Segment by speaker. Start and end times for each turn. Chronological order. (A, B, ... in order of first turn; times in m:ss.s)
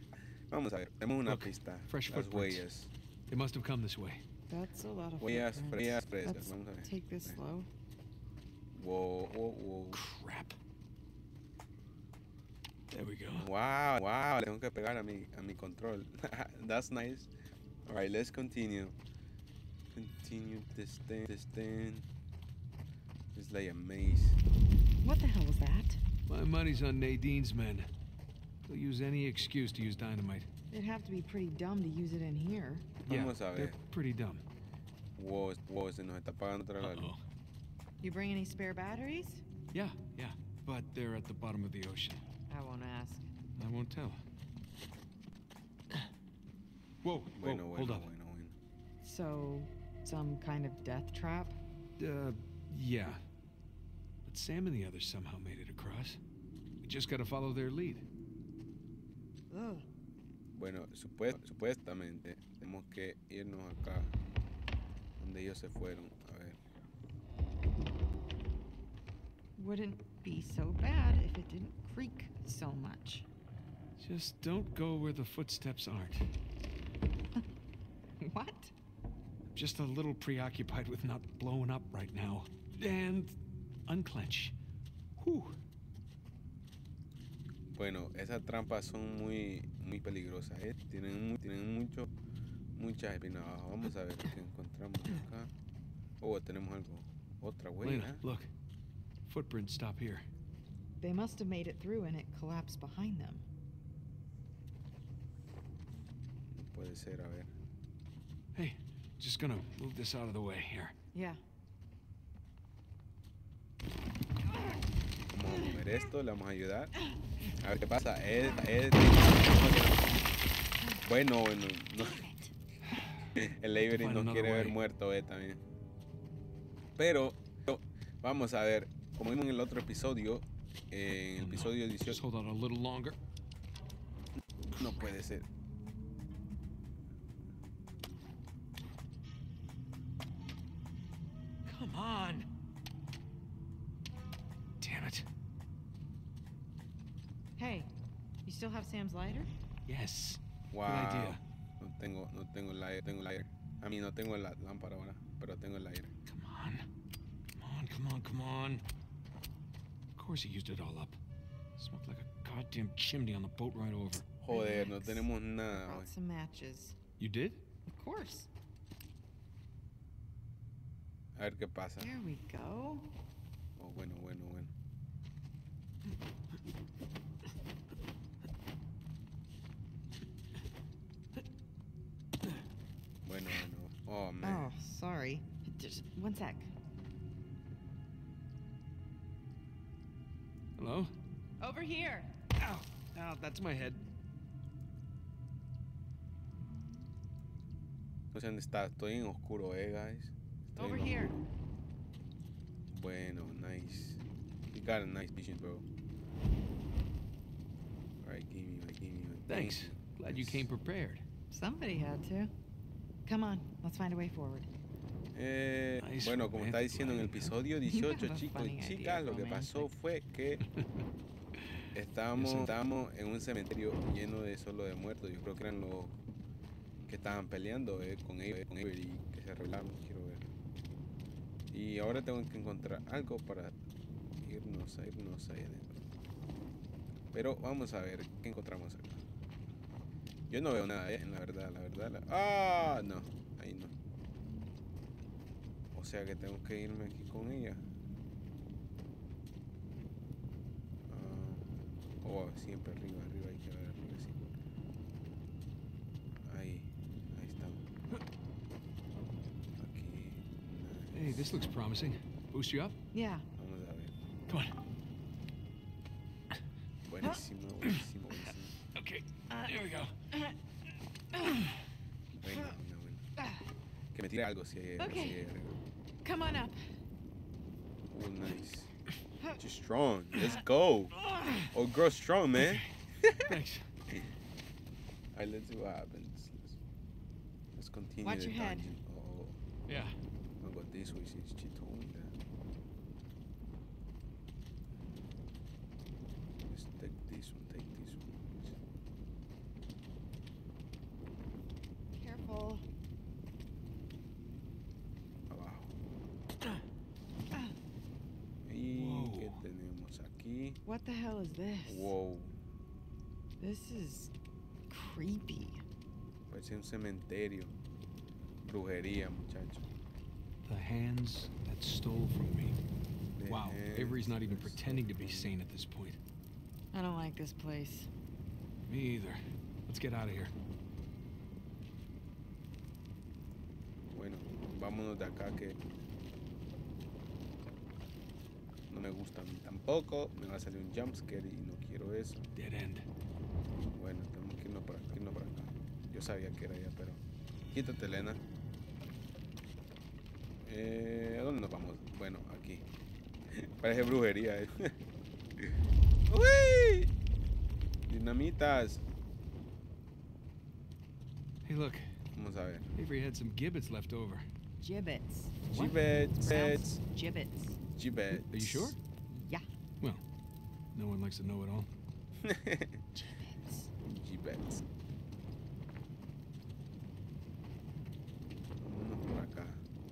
0:00.5-0:02.9 A
0:01.3-0:02.6 B
0:03.3-0:04.2 B
0:04.5-0:07.7 C
0:05.2-0:07.4 A
0:08.8-0:10.0 A
0:09.9-0:10.6 B
0:12.9-0:13.5 B
0:13.4-0:17.3 A
0:17.9-0:19.0 A
0:19.9-0:22.1 A
0:23.3-0:24.4 A
0:25.0-0:26.0 C
0:26.3-0:27.9 B
0:28.7-0:30.5 B
0:30.7-0:32.9 C
0:33.0-0:34.4 B
0:33.1-0:33.8 A
0:35.2-0:37.1 A
0:36.8-0:37.2 B
0:38.0-0:39.4 C
0:39.7-0:42.2 B
0:42.5-0:43.3 C
0:43.6-0:44.2 B
0:47.0-0:48.1 B
0:47.4-0:48.6 A
0:49.0-0:51.6 C
0:52.0-0:53.2 B
0:54.2-0:56.2 B
0:56.8-0:58.0 B
0:59.5-0:59.8 C
1:00.5-1:04.1 A
1:05.2-1:06.6 A
1:09.6-1:13.3 C
1:14.0-1:16.3 B
1:18.2-1:18.7 C
1:19.5-1:24.5 B
1:25.2-1:25.6 B
1:27.7-1:32.1 A
1:32.8-1:35.5 A
1:36.2-1:38.2 A
1:37.8-1:38.5 B
1:39.2-1:40.2 B
1:41.0-1:43.4 C
1:46.5-1:47.5 A
1:48.5-1:50.9 B
1:51.1-1:51.4 C
1:55.3-1:56.9 A
1:57.4-2:00.1 A
2:01.0-2:02.3 A
2:02.9-2:03.3 B
2:03.3-2:05.6 A
2:03.9-2:04.8 B
2:07.0-2:12.2 A
2:11.2-2:13.2 B
2:14.7-2:15.5 A
2:14.8-2:15.1 B
2:21.7-2:22.5 B
2:24.8-2:25.3 B
2:27.6-2:27.9 C
2:28.4-2:29.5 C
2:29.9-2:31.4 B
2:30.7-2:36.1 A
2:36.2-2:36.8 B
2:37.6-2:38.8 B
2:40.2-2:41.2 B
2:41.8-2:44.3 B
2:44.4-2:46.1 A
2:44.5-2:47.0 C
2:47.2-2:47.6 B
2:47.9-2:48.5 C
2:51.4-2:52.1 A
2:52.0-2:53.1 C
2:53.8-2:54.7 A
3:03.2-3:04.7 A
3:04.4-3:06.7 C
3:10.8-3:11.1 B
3:11.6-3:12.4 C
3:12.6-3:14.0 B
3:18.3-3:21.4 A
3:20.8-3:21.3 C
3:22.9-3:25.9 A
3:28.2-3:30.7 A
3:29.5-3:31.2 B
3:31.5-3:32.5 C
3:33.2-3:34.7 C
3:35.3-3:40.6 A
3:36.0-3:37.5 B
3:37.8-3:39.9 C
3:41.9-3:46.2 A
3:42.3-3:42.7 B
3:47.0-3:50.5 A
3:51.7-3:53.7 A
3:54.4-3:56.0 A
3:57.3-3:59.2 A
4:00.5-4:03.9 A
4:05.9-4:07.8 A
4:11.1-4:14.4 A
4:16.4-4:17.9 A
4:19.8-4:21.6 A
4:21.1-4:23.0 B
4:23.1-4:23.5 C
4:23.6-4:24.1 A
4:24.5-4:24.7 B
4:27.1-4:28.8 A
4:28.9-4:30.1 B
4:31.4-4:31.7 B
4:32.4-4:33.2 A
4:33.4-4:33.6 C
4:34.1-4:35.8 A
4:35.0-4:35.4 C
4:36.2-4:36.8 C
4:38.1-4:38.9 A
4:39.6-4:41.2 A
4:41.2-4:41.7 B
4:41.7-4:43.6 A
4:42.6-4:43.9 B
4:45.3-4:46.8 A
4:47.8-4:49.6 A
4:48.2-4:48.9 C
4:49.9-4:50.1 B
4:50.6-4:52.4 A
4:56.7-4:58.8 A
5:02.1-5:02.9 C
5:05.5-5:05.9 A
5:08.6-5:10.8 A
5:08.9-5:09.6 B
5:10.9-5:12.1 C
5:11.9-5:12.6 A
5:13.6-5:14.3 C
5:14.9-5:15.8 C
5:16.5-5:17.8 A
5:18.6-5:19.9 A
5:20.6-5:22.8 B
5:23.4-5:25.6 A
5:23.5-5:26.2 B
5:26.9-5:28.1 C
5:28.9-5:30.5 B
5:34.1-5:35.8 A
5:38.9-5:42.5 A
5:42.6-5:43.0 B
5:43.9-5:48.4 A
5:50.6-5:52.8 A
5:53.5-5:55.0 A
5:55.6-5:57.1 A
5:58.1-5:59.0 A
6:01.6-6:02.0 B
6:02.3-6:02.9 A
6:03.0-6:04.5 B
6:04.8-6:05.8 C
6:05.7-6:07.0 A
6:06.3-6:07.8 C
6:08.0-6:08.9 A
6:08.3-6:09.0 B
6:09.3-6:09.7 C
6:10.9-6:11.9 B
6:12.4-6:13.0 A
6:13.2-6:13.9 C
6:14.0-6:14.8 A
6:18.8-6:19.8 A